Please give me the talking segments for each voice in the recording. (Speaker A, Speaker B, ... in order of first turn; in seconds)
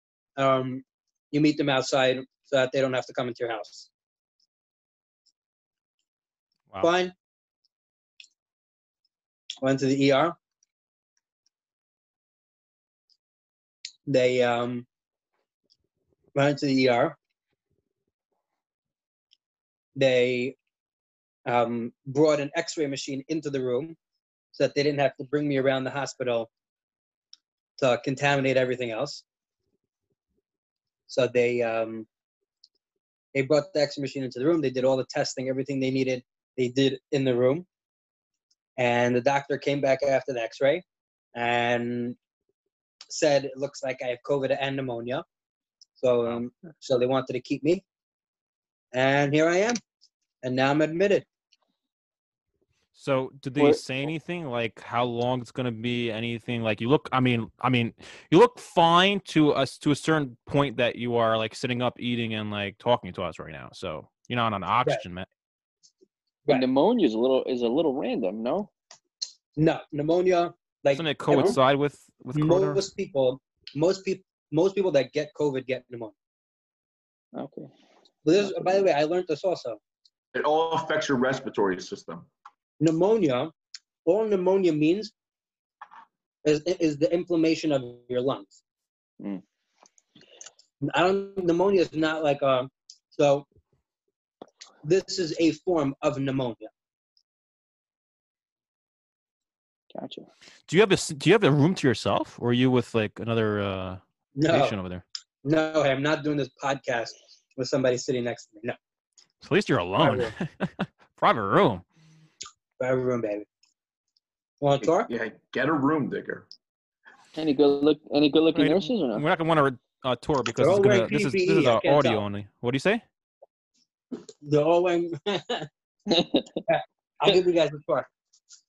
Speaker A: 0.4-3.9, 6.8-7.1, 9.6-10.3, 14.1-14.8, 16.3-17.1, 19.9-20.6, 21.4-23.9, 24.5-26.5, 27.8-29.2, 31.1-32.1, 33.3-37.6, 38.8-40.8, 41.3-42.2, 43.1-45.2, 46.0-47.8, 48.9-49.8, 50.4-51.2, 69.5-71.6, 72.3-76.2, 78.2-79.8, 82.8-83.5, 84.0-85.1, 86.4-88.6, 90.8-93.5, 94.8-96.7, 104.3-104.8, 105.4-108.8, 110.0-110.3, 112.8-113.5, 114.6-115.1, 120.6-122.2, 124.4-125.7, 126.7-128.1
Speaker B: 52.9-65.3, 70.9-72.8, 100.7-105.0, 109.4-111.8, 118.5-123.0
Speaker C: 66.5-68.7, 77.3-77.7, 78.4-78.9, 99.9-100.3, 117.3-119.2, 126.1-126.5
Speaker D: 80.3-82.3, 114.8-116.5